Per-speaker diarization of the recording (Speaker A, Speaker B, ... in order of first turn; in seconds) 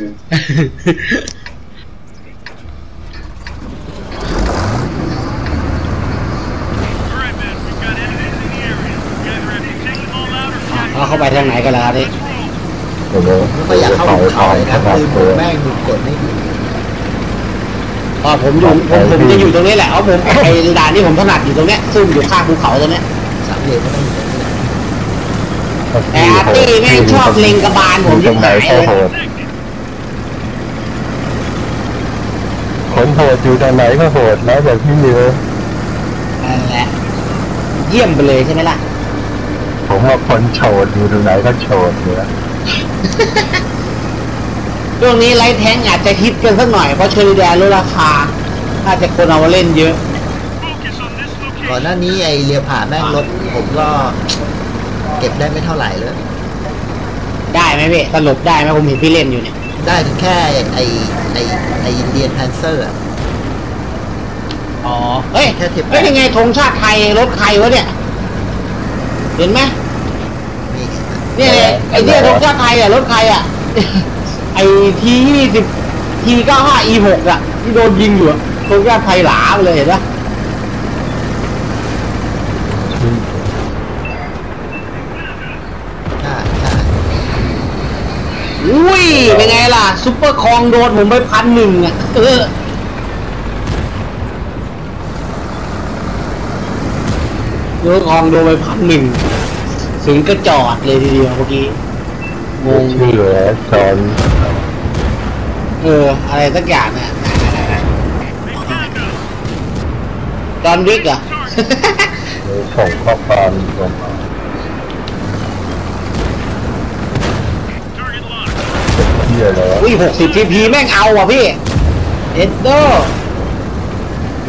Speaker A: 0.3-1.2, 10.7-12.1, 18.2-23.0, 26.1-28.9, 36.4-36.9, 37.8-38.8, 43.2-43.6, 45.0-50.0, 57.5-59.5, 64.8-67.9, 69.4-69.7, 71.3-80.0, 88.6-92.5, 97.8-99.2, 100.0-101.8, 102.6-103.1, 105.8-107.8, 108.6-109.0, 110.6-112.2, 119.8-121.6, 122.3-123.1
Speaker B: 13.1-15.4, 18.6-19.5, 25.9-29.2, 32.9-35.4, 39.9-42.3, 71.4-72.4, 82.7-83.5, 89.1-89.7, 102.7-104.2, 112.4-114.0, 119.0-119.9
Speaker C: 13.4-16.4, 23.4-24.7, 51.6-54.2, 55.2-56.2, 59.8-63.0, 65.4-66.2, 70.7-71.3, 86.2-86.9